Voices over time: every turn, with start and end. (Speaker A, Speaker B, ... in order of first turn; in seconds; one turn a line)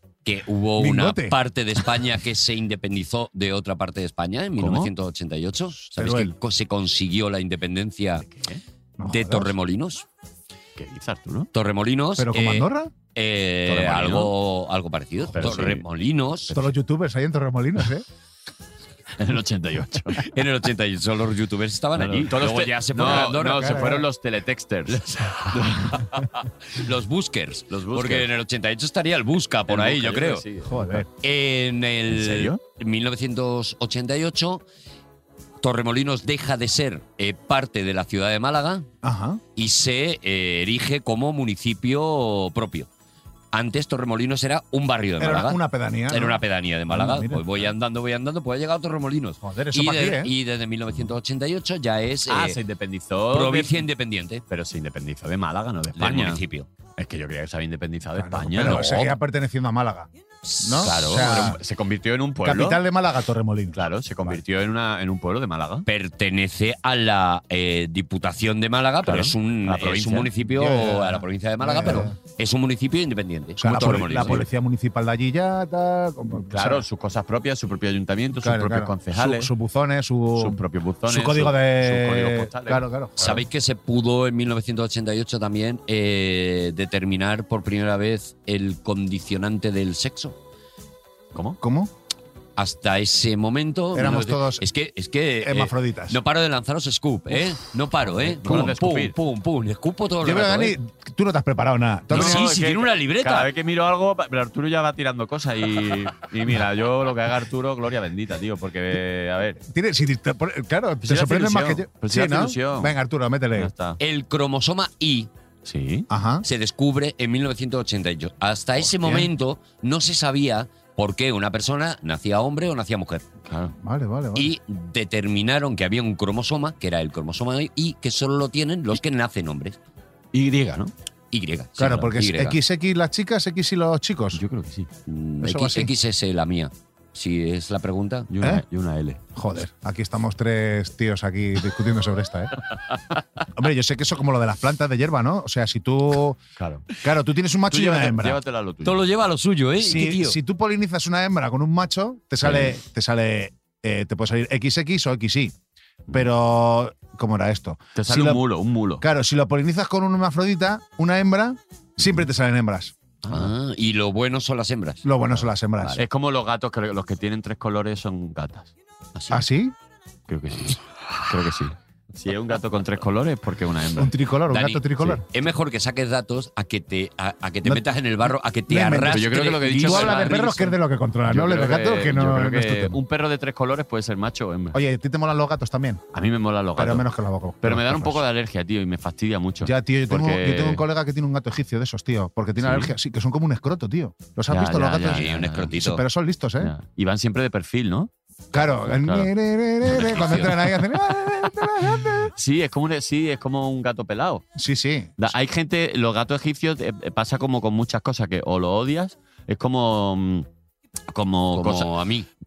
Speaker A: 0.2-8.3
Speaker B: 0.8-1.4
Speaker C: 4.6-4.9
Speaker B: 5.9-6.3
Speaker C: 8.2-8.6
Speaker B: 9.0-9.5
Speaker A: 9.1-10.1
Speaker C: 10.8-11.5
Speaker A: 11.5-16.6
Speaker B: 12.2-12.9
Speaker C: 13.7-14.3
Speaker C: 15.3-15.8
Speaker B: 16.5-18.1
Speaker C: 19.2-20.2
Speaker A: 20.2-24.0
Speaker C: 22.0-26.4
Speaker B: 23.1-24.0
Speaker A: 24.9-30.4
Speaker C: 27.7-28.3
Speaker C: 29.7-31.1
Speaker B: 30.6-31.1
Speaker A: 31.2-34.6
Speaker C: 32.1-32.6
Speaker A: 35.6-38.9
Speaker B: 39.0-39.4
Speaker A: 39.6-42.9
Speaker A: 43.5-52.6
Speaker B: 45.2-47.7
Speaker B: 49.4-50.3
Speaker C: 52.3-53.9
Speaker A: 53.3-54.4
Speaker C: 54.5-56.4
Speaker A: 56.0-56.7
Speaker C: 57.0-59.1
Speaker B: 58.1-60.1
Speaker A: 58.6-59.0
Speaker A: 60.5-61.3
Speaker B: 60.6-61.6
Speaker C: 60.8-62.8
Speaker B: 62.4-64.4
Speaker C: 63.7-65.9
Speaker A: 65.9-74.4
Speaker C: 69.0-70.3
Speaker B: 70.5-72.2
Speaker B: 73.6-76.8
Speaker C: 74.0-74.4
Speaker C: 76.5-79.5
Speaker B: 78.4-83.4
Speaker C: 80.4-82.8
Speaker A: 83.2-90.4
Speaker C: 91.3-91.6
Speaker B: 91.6-91.9
Speaker A: 92.6-100.8
Speaker B: 93.9-94.7
Speaker B: 95.4-96.2
Speaker C: 98.1-99.2
Speaker B: 100.2-102.5
Speaker A: 102.1-103.5
Speaker C: 102.1-109.6
Speaker B: 109.6-113.7
Speaker C: 111.0-113.0
Speaker C: 113.6-114.0
Speaker A: 114.0-115.3
Speaker C: 115.7-116.1
Speaker B: 116.1-116.5
Speaker A: 116.4-123.2
Speaker B: 118.8-119.3
Speaker C: 123.5-123.7
Speaker B: 123.8-124.5
Speaker A: 124.3-129.8
Speaker C: 130.3-130.9
Speaker A: 131.3-132.6
Speaker B: 131.8-134.4
Speaker C: 134.3-134.9
Speaker A: 135.1-138.3
Speaker B: 135.4-135.9
Speaker C: 138.3-139.2
Speaker B: 139.3-142.5
Speaker B: 143.6-146.4
Speaker C: 146.6-146.9
Speaker B: 147.0-148.4
Speaker C: 147.7-149.0
Speaker A: 148.8-150.4
Speaker B: 149.8-155.5
Speaker C: 152.4-152.8
Speaker B: 156.1-158.4
Speaker C: 158.0-159.0
Speaker B: 159.0-162.9
Speaker C: 163.2-163.5
Speaker A: 163.3-165.1
Speaker B: 165.0-166.0
Speaker C: 166.0-168.7
Speaker A: 169.2-169.4
Speaker B: 169.3-169.7
Speaker C: 170.3-174.1
Speaker B: 174.0-175.2
Speaker A: 174.5-180.6
Speaker B: 178.7-183.0
Speaker C: 179.1-180.7
Speaker C: 181.3-184.8
Speaker B: 184.7-186.0
Speaker C: 186.1-187.1
Speaker B: 186.8-188.2
Speaker C: 187.6-190.8
Speaker B: 189.6-196.7
Speaker C: 192.6-192.9
Speaker C: 194.5-195.7
Speaker A: 195.1-196.0
Speaker C: 196.6-199.3
Speaker B: 198.5-202.3
Speaker C: 199.9-200.6
Speaker A: 200.0-200.5
Speaker C: 202.4-204.4
Speaker B: 204.6-205.1
Speaker C: 205.2-210.5
Speaker C: 211.1-211.9
Speaker A: 211.5-212.3